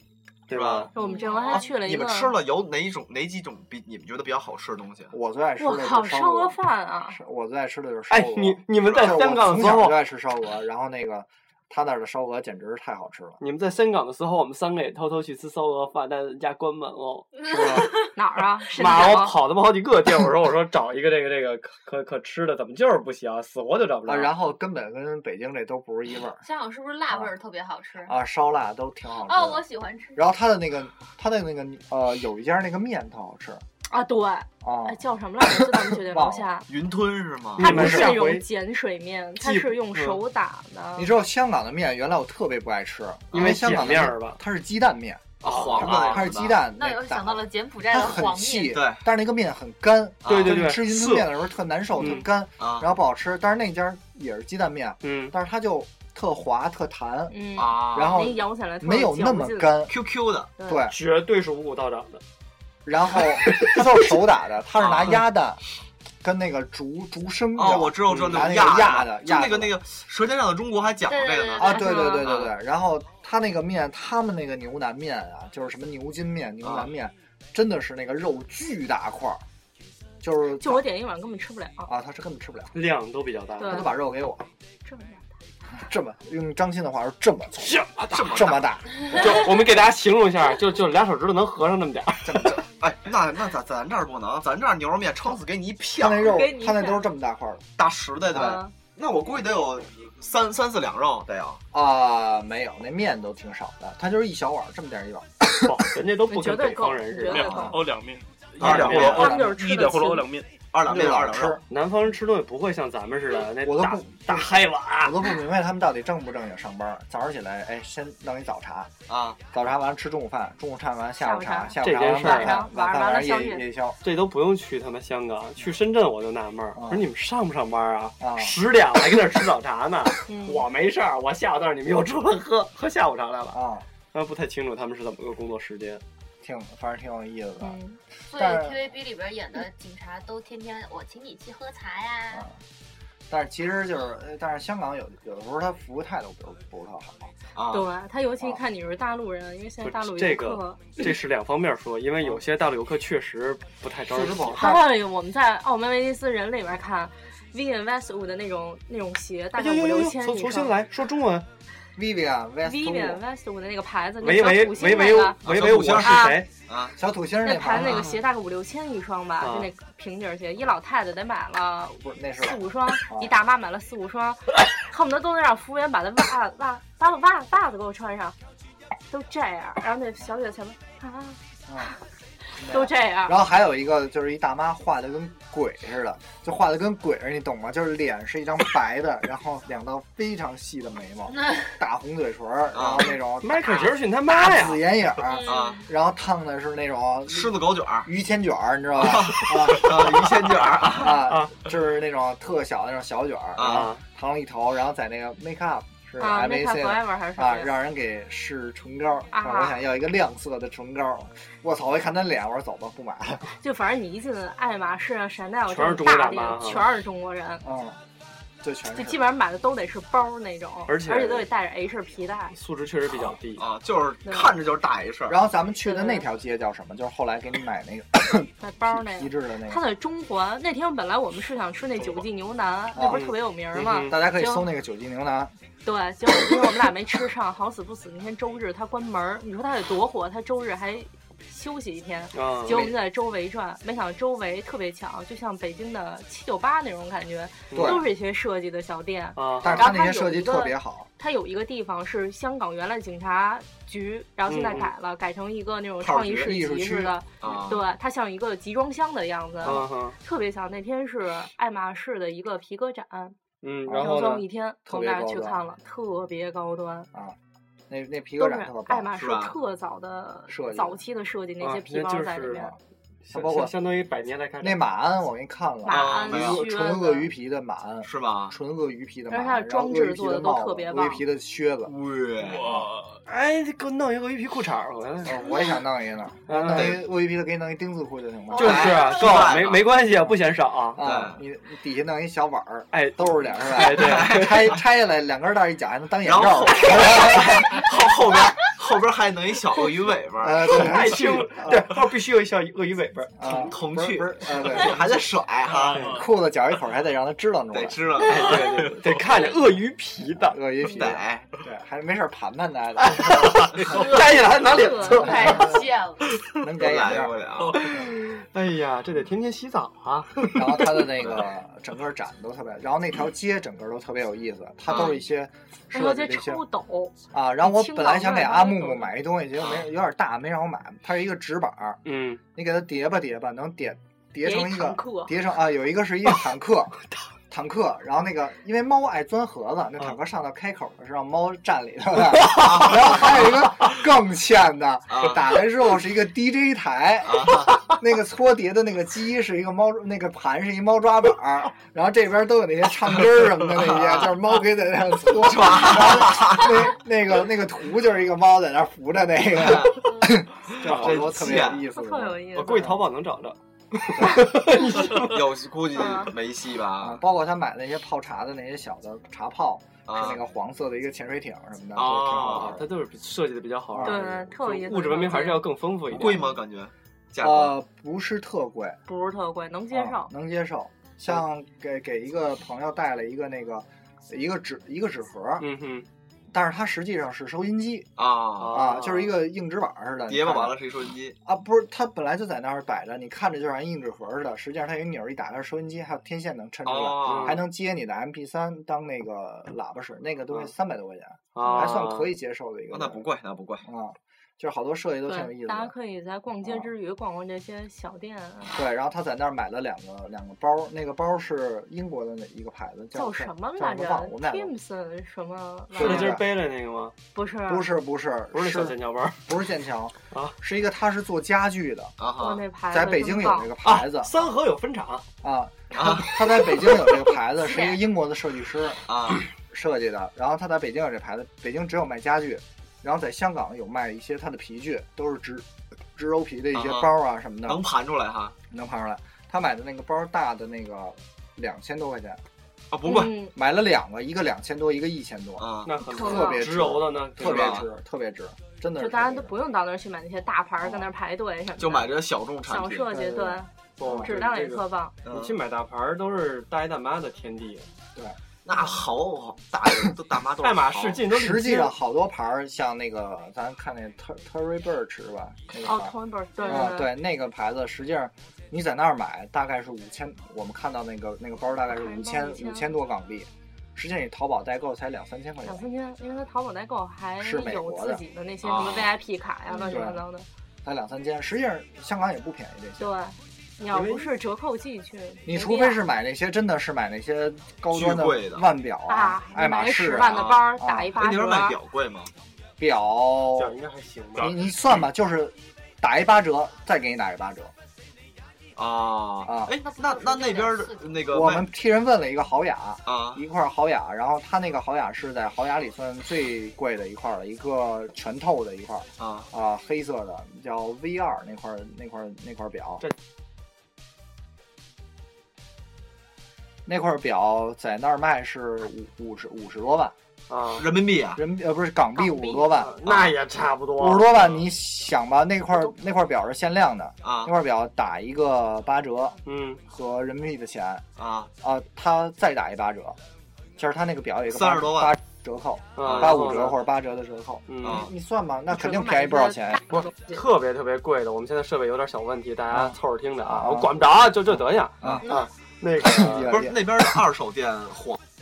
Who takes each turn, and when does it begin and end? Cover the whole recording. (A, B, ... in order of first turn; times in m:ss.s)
0:00.5-0:00.9 A
0:00.5-0:00.9 B
0:00.9-0:02.4 C
0:01.0-0:01.7 D
0:01.5-0:05.1 B
0:05.1-0:06.6 E
0:05.6-0:07.2 C
0:07.1-0:13.4 E
0:08.1-0:10.0 A
0:08.8-0:09.2 B
0:13.4-0:18.0 A
0:17.5-0:18.1 D
0:18.1-0:19.4 C
0:18.7-0:24.3 A
0:24.0-0:26.4 E
0:26.4-0:28.2 D
0:27.1-0:27.3 E
0:28.1-0:33.6 E
0:29.2-0:30.2 D
0:33.9-0:36.7 C
0:34.6-0:36.5 E
0:36.7-0:37.8 B
0:37.6-0:41.1 C
0:37.6-0:38.4 A
0:37.6-0:38.1 E
0:39.4-0:40.2 A
0:41.0-0:59.9 E
0:43.3-0:44.4 A
0:43.3-0:43.6 B
0:45.4-0:46.6 B
0:45.4-0:45.9 A
0:46.2-0:48.8 D
0:48.7-0:49.0 B
0:50.2-0:50.7 B
0:50.2-0:51.3 A
0:52.0-0:52.2 A
0:52.6-0:52.9 B
0:55.0-0:55.3 A
0:57.3-0:59.8 C
0:57.6-0:58.4 B
0:59.9-1:00.5 B
1:00.6-1:00.9 C
1:00.6-1:01.0 E
1:00.8-1:02.2 A
1:02.8-1:05.6 E
1:04.8-1:05.2 B
1:06.2-1:09.8 E
1:07.6-1:12.5 B
1:08.1-1:08.3 A
1:11.0-1:12.1 D
1:11.6-1:19.4 E
1:11.7-1:12.3 C
1:16.6-1:16.9 B
1:20.2-1:20.9 E
1:20.6-1:21.9 C
1:21.8-1:22.7 E
1:22.7-1:23.8 A
1:23.6-1:23.9 C
1:23.6-1:24.5 E
1:24.8-1:25.3 C
1:25.8-1:29.4 E
1:27.6-1:28.2 A
1:28.0-1:29.0 B
1:29.1-1:32.5 A
1:32.3-1:32.6 E
1:32.3-1:36.4 B
1:36.0-1:37.6 E
1:36.2-1:37.1 C
1:37.8-1:41.6 B
1:38.3-1:38.7 C
1:38.3-1:38.6 E
1:41.7-1:45.8 E
1:45.6-1:47.5 A
1:46.2-1:47.8 C
1:47.3-1:50.5 F
1:48.6-1:49.4 B
1:48.6-1:49.2 A
1:48.6-1:49.4 E
1:49.1-1:50.3 C
1:50.7-1:51.6 B
1:50.8-1:51.6 E
1:51.7-1:55.2 A
1:53.6-1:58.9 E
1:59.1-1:59.4 B
1:59.5-2:04.0 E
2:01.2-2:03.6 C
2:01.8-2:02.6 A
2:04.0-2:13.6 A
2:06.7-2:07.0 E
2:08.2-2:08.6 E
2:10.3-2:10.6 C
2:13.5-2:13.8 E
2:14.1-2:16.0 A
2:16.4-2:17.8 E
2:17.6-2:18.0 C
2:18.3-2:22.5 D
2:18.3-2:18.9 E
2:23.3-2:27.3 E
2:27.5-2:27.9 B
2:27.7-2:31.0 C
2:29.8-2:34.7 A
2:34.1-2:34.9 E
2:34.5-2:40.8 C
2:39.6-2:41.5 A
2:42.0-2:43.2 E
2:42.6-2:46.4 C
2:44.2-2:46.5 A
2:45.4-2:47.0 B
2:47.0-2:48.1 E
2:47.4-2:58.4 C
2:49.4-2:49.7 A
2:52.0-2:53.4 E
2:59.1-3:01.9 C
3:01.7-3:01.9 E
3:02.6-3:03.4 C
3:02.6-3:33.5 E
3:12.7-3:13.2 B
3:13.4-3:14.8 A
3:15.2-3:15.9 D
3:15.4-3:15.8 B
3:17.3-3:18.1 B
3:19.0-3:21.2 B
3:21.2-3:21.5 A
3:23.6-3:23.9 B
3:23.6-3:24.0 A
3:26.2-3:27.7 C
3:29.3-3:29.8 C
3:33.5-3:37.6 C
3:35.7-3:36.8 A
3:37.6-3:38.0 E
3:38.6-3:39.2 E
3:38.9-3:42.6 C
3:40.9-3:41.5 A
3:42.5-3:43.6 A
3:43.6-3:45.4 B
3:44.2-3:44.5 C
3:45.3-3:49.8 E
3:45.8-3:46.2 C
3:48.6-3:54.7 C
3:52.9-3:53.3 E
3:53.0-3:54.2 A
3:54.0-3:55.5 E
3:55.8-4:23.4 C
3:56.4-3:56.7 E
4:02.3-4:02.9 A
4:07.7-4:08.0 A
4:07.7-4:08.1 E
4:09.4-4:09.8 A
4:09.6-4:11.1 E
4:14.5-4:14.9 A
4:16.1-4:16.4 B
4:16.2-4:17.7 E
4:17.4-4:17.8 B
4:19.6-4:20.2 A
4:23.6-4:24.4 A
4:23.9-4:24.3 E
4:24.0-4:27.1 C
4:24.8-4:25.6 E
4:27.9-4:29.1 E
4:28.4-4:32.7 C
4:29.2-4:29.5 B
4:30.5-4:31.0 E
4:31.6-4:32.7 A
4:33.2-4:34.8 A
4:33.3-4:33.7 E
4:34.6-4:41.9 E
4:35.8-4:37.3 C
4:35.9-4:36.6 B
4:38.0-4:38.5 B
4:39.3-4:41.2 C
4:41.8-4:42.8 B
4:42.4-4:43.2 F
4:43.2-4:45.5 A
4:45.2-4:49.0 E
4:45.5-4:45.7 D
4:46.5-4:46.9 A
4:46.7-4:47.0 B
4:48.5-4:50.0 B
4:48.5-4:51.0 A
4:48.7-4:49.2 D
4:50.9-4:57.8 E
4:51.0-4:51.4 B
4:52.9-4:54.7 A
4:53.9-4:54.8 B
4:56.2-5:00.9 B
5:00.4-5:02.0 E
5:00.7-5:03.7 A
5:03.4-5:05.3 E
5:03.4-5:06.0 B
5:05.7-5:06.3 F
5:05.9-5:06.2 A
5:06.0-5:08.4 E
5:07.7-5:08.6 B
5:08.2-5:10.6 A
5:08.5-5:09.1 F
5:10.4-5:13.9 E
5:10.8-5:11.5 B
5:13.0-5:15.7 A
5:13.9-5:14.2 D
5:14.7-5:15.3 C
5:15.1-5:16.3 D
5:15.2-5:15.8 E
5:16.4-5:17.4 E
5:16.8-5:17.8 B
5:17.7-5:21.0 A
5:20.5-5:26.6 E
5:24.9-5:25.2 C
5:25.9-5:29.1 C
5:27.3-5:32.0 E
5:29.6-5:29.8 B
5:32.0-5:32.4 A
5:32.5-5:37.0 E
5:34.4-5:35.4 C
5:37.5-6:02.9 E
5:42.4-5:43.5 B
5:45.1-5:45.4 B
5:47.2-5:47.8 B
5:53.8-5:54.4 B
5:55.4-5:56.7 B
5:59.6-6:00.2 B
6:00.7-6:01.8 B
6:00.8-6:01.4 A
6:01.9-6:03.0 C
6:02.5-6:05.4 A
6:04.1-6:04.6 E
6:05.0-6:07.2 B
6:05.9-6:06.3 C
6:07.0-6:12.8 E
6:10.1-6:10.4 B
6:11.9-6:12.8 B
6:12.0-6:16.5 A
6:13.9-6:14.3 E
6:14.0-6:15.7 C
6:16.1-6:17.7 B
6:17.4-6:19.0 E
6:19.1-6:20.3 C
6:19.9-6:25.6 E
6:25.6-6:26.0 A
6:26.5-6:28.1 E
6:28.2-6:28.9 B
6:28.6-6:29.4 A
6:28.7-6:30.8 E
6:30.3-6:31.4 B
6:31.4-6:43.2 E
6:36.8-6:37.6 B
6:37.3-6:37.6 A
6:41.5-6:42.3 A
6:42.9-6:43.8 B
6:43.8-6:45.9 E
6:45.2-6:48.8 C
6:46.6-6:46.9 E
6:48.7-6:54.7 E
6:53.1-6:56.4 C
6:55.9-6:57.1 A
6:56.0-6:56.4 E
6:57.3-6:57.9 C
6:57.7-7:02.2 E
6:58.5-6:59.4 A
7:00.3-7:00.6 A
7:02.2-7:02.6 B
7:02.4-7:03.7 C
7:02.9-7:04.5 E
7:03.8-7:05.2 A
7:05.4-7:09.0 E
7:05.9-7:06.8 B
7:07.7-7:08.0 C
7:09.1-7:09.4 B
7:09.7-7:17.8 E
7:16.7-7:17.1 B
7:17.6-7:18.6 B
7:18.7-7:22.4 E
7:22.9-7:23.4 B
7:23.0-7:23.5 C
7:23.5-7:29.6 E
7:25.6-7:25.9 B
7:25.8-7:27.8 A
7:26.1-7:26.6 C
7:27.4-7:27.9 B
7:29.0-7:35.1 C
7:30.8-7:31.1 E
7:31.8-7:33.1 B
7:33.1-7:34.3 E
7:34.0-7:37.9 A
7:35.2-7:35.6 B
7:38.1-7:38.9 E
7:38.6-7:41.2 B
7:40.6-7:41.9 A
7:41.3-7:55.9 E
7:45.8-7:47.1 C
7:51.9-7:52.9 C
7:55.6-8:00.5 C
7:57.4-7:58.2 E
7:58.6-7:59.1 B
7:59.7-8:00.0 D
7:59.9-8:00.2 E
8:00.8-8:03.1 E
8:03.0-8:06.0 C
8:03.9-8:04.3 A
8:05.4-8:11.1 E
8:07.9-8:08.6 B
8:09.1-8:11.8 C
8:10.2-8:12.3 B
8:12.8-8:13.7 E
8:13.6-8:14.6 A
8:14.4-8:17.7 E
8:18.8-8:21.7 B
8:19.4-8:19.7 E
8:19.8-8:21.3 D
8:21.3-8:33.0 E
8:23.0-8:23.4 B
8:29.2-8:29.5 B
8:36.8-8:40.1 E
8:40.5-8:40.9 A
8:40.8-8:41.4 B
8:41.3-8:42.9 E
8:42.2-8:42.7 C
8:42.6-8:44.4 A
8:43.0-8:43.4 B
8:44.0-8:51.0 E
8:47.2-8:47.5 B
8:49.4-8:49.8 A
8:51.2-8:51.5 B
8:51.6-8:53.2 E
8:53.8-9:00.0 E
8:54.5-8:55.2 B
8:56.0-8:56.8 A
8:56.0-8:56.5 B
8:57.7-8:58.1 A
8:57.8-8:58.1 B
8:58.8-9:00.4 C
9:00.3-9:06.5 A
9:02.7-9:05.3 E
9:06.0-9:07.2 E
9:06.2-9:08.2 B